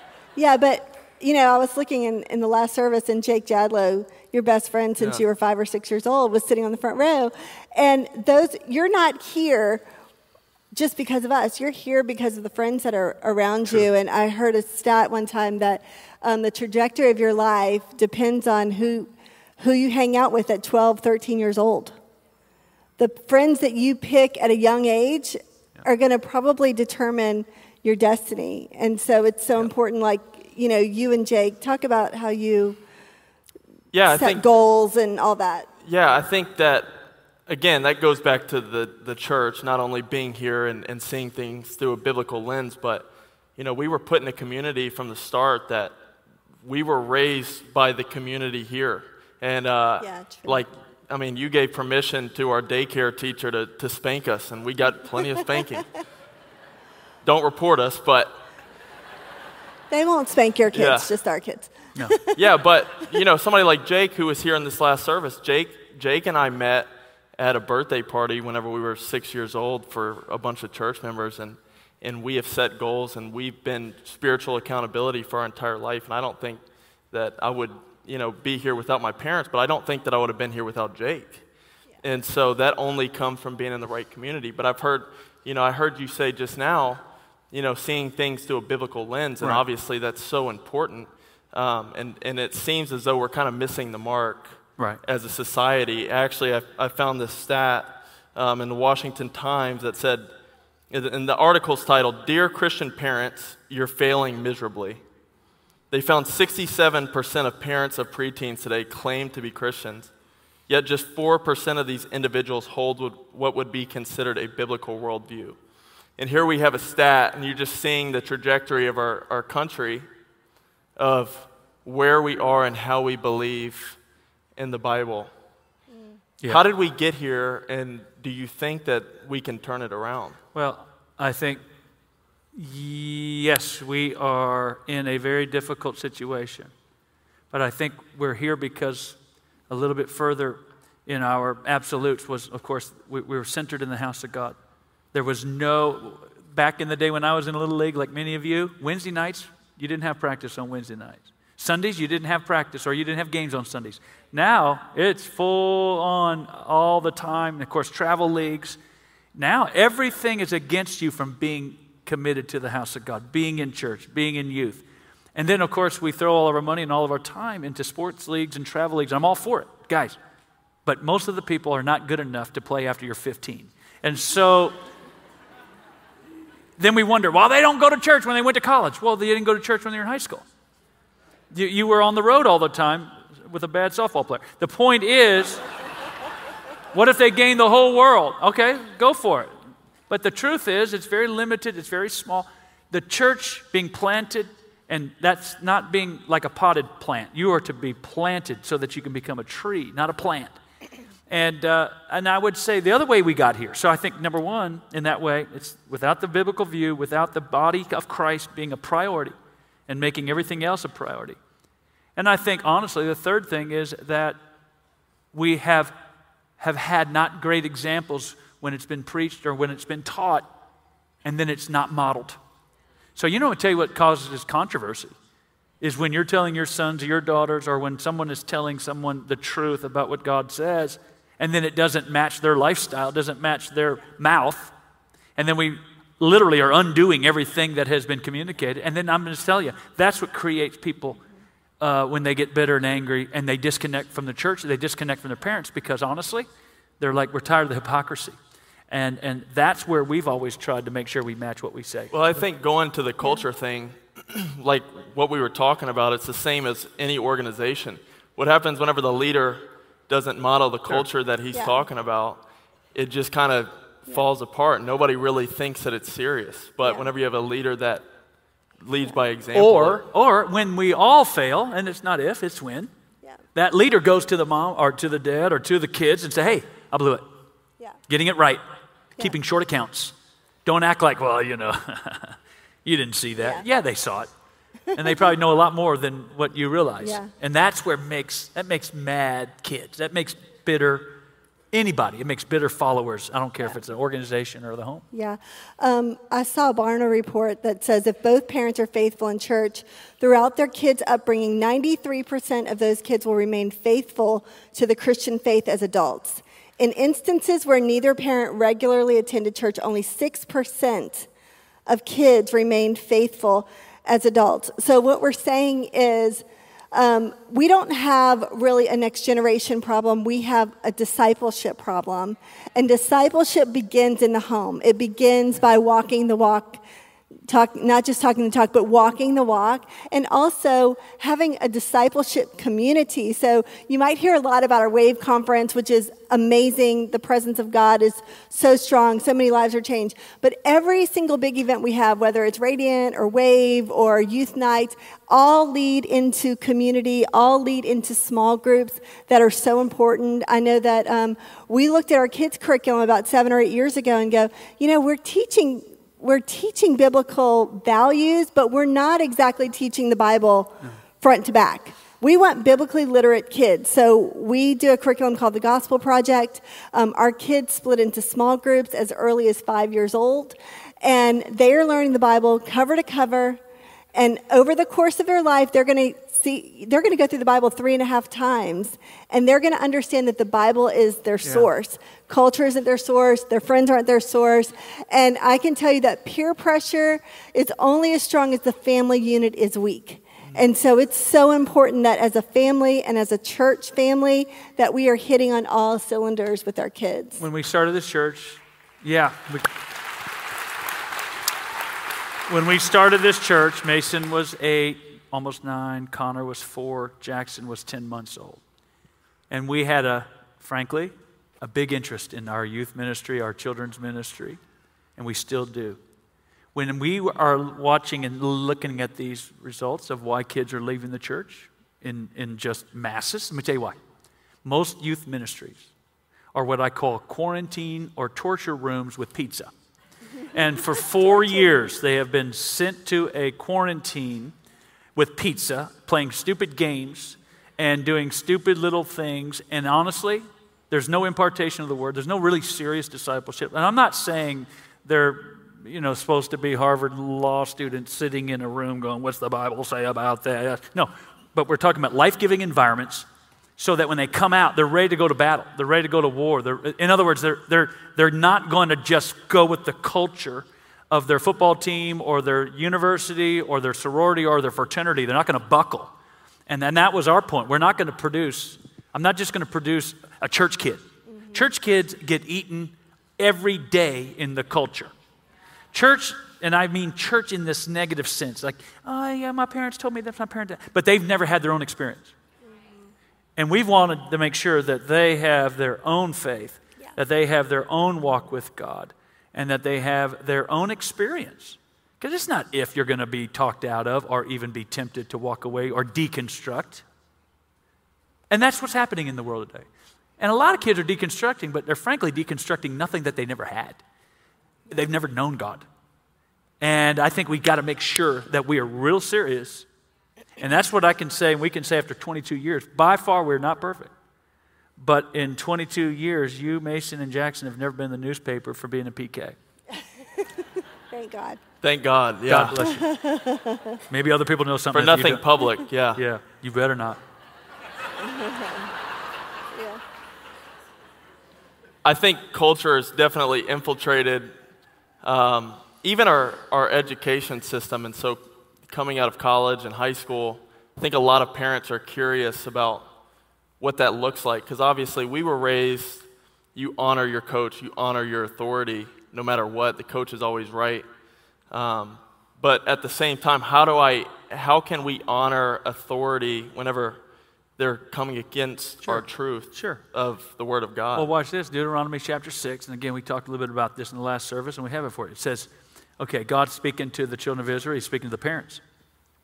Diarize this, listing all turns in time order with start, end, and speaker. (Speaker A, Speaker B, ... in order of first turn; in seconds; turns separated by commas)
Speaker A: 0.4-9.8, Speaker A: 10.7-22.0, Speaker A: 23.0-32.8, Speaker B: 33.9-34.5, Speaker A: 34.1-35.7, Speaker B: 35.8-37.0, Speaker B: 37.5-45.9, Speaker B: 46.6-55.9, Speaker A: 50.0-50.7, Speaker B: 57.2-58.4, Speaker A: 59.9-62.4, Speaker B: 60.7-61.1, Speaker B: 62.4-81.4, Speaker B: 82.0-100.3, Speaker B: 100.9-105.0, Speaker B: 105.9-110.1, Speaker B: 110.7-115.6, Speaker B: 116.2-120.1, Speaker B: 121.0-124.0, Speaker B: 124.6-125.3, Speaker B: 126.5-130.4, Speaker C: 130.5-131.6, Speaker C: 132.6-136.7, Speaker C: 137.5-139.2, Speaker C: 139.7-144.6, Speaker C: 145.1-158.8, Speaker C: 159.3-164.8, Speaker C: 165.4-170.2, Speaker C: 170.9-174.8, Speaker C: 176.8-180.4, Speaker C: 181.5-185.6, Speaker C: 186.9-189.5, Speaker C: 190.1-200.6, Speaker C: 201.3-209.3, Speaker C: 209.9-211.4, Speaker C: 212.2-214.4, Speaker C: 215.3-215.9, Speaker C: 216.6-220.5, Speaker C: 221.2-222.4, Speaker C: 223.2-225.1, Speaker C: 225.8-234.7, Speaker C: 235.4-241.2, Speaker C: 241.8-246.5, Speaker C: 247.0-248.4, Speaker C: 248.9-252.4, Speaker B: 252.1-262.4, Speaker A: 261.5-261.8, Speaker B: 262.9-268.1, Speaker A: 266.8-267.1, Speaker B: 268.8-270.0, Speaker C: 269.5-272.9, Speaker C: 273.6-277.3, Speaker C: 278.1-278.6, Speaker C: 279.2-280.1, Speaker C: 280.6-284.3, Speaker A: 283.4-283.6, Speaker C: 284.9-291.2, Speaker A: 287.0-287.3, Speaker C: 291.7-295.1, Speaker A: 295.1-311.3, Speaker A: 311.9-326.8, Speaker A: 327.5-373.6, Speaker A: 374.1-397.4, Speaker C: 397.4-399.7, Speaker C: 402.5-408.6, Speaker C: 409.5-414.6, Speaker C: 415.2-416.0, Speaker C: 416.8-424.0, Speaker C: 424.6-425.9, Speaker C: 426.5-429.7, Speaker C: 430.5-434.6, Speaker C: 435.1-453.3, Speaker C: 453.8-466.1, Speaker C: 466.7-475.1, Speaker A: 471.3-471.6, Speaker C: 475.9-482.3, Speaker A: 482.8-483.1, Speaker C: 483.6-497.1, Speaker C: 498.5-499.9, Speaker C: 500.4-504.0, Speaker C: 504.9-505.9, Speaker C: 506.8-509.9, Speaker C: 510.6-514.1, Speaker C: 515.0-519.6, Speaker A: 520.0-521.6, Speaker B: 521.8-522.9, Speaker C: 522.5-523.1, Speaker A: 522.9-524.0, Speaker C: 524.1-525.5, Speaker B: 524.9-526.2, Speaker C: 526.1-527.2, Speaker A: 528.2-528.9, Speaker A: 529.7-530.0, Speaker B: 532.0-534.5, Speaker B: 535.2-543.1, Speaker B: 543.8-551.1, Speaker B: 551.7-557.2, Speaker B: 557.8-561.3, Speaker C: 559.1-560.0, Speaker C: 561.1-568.8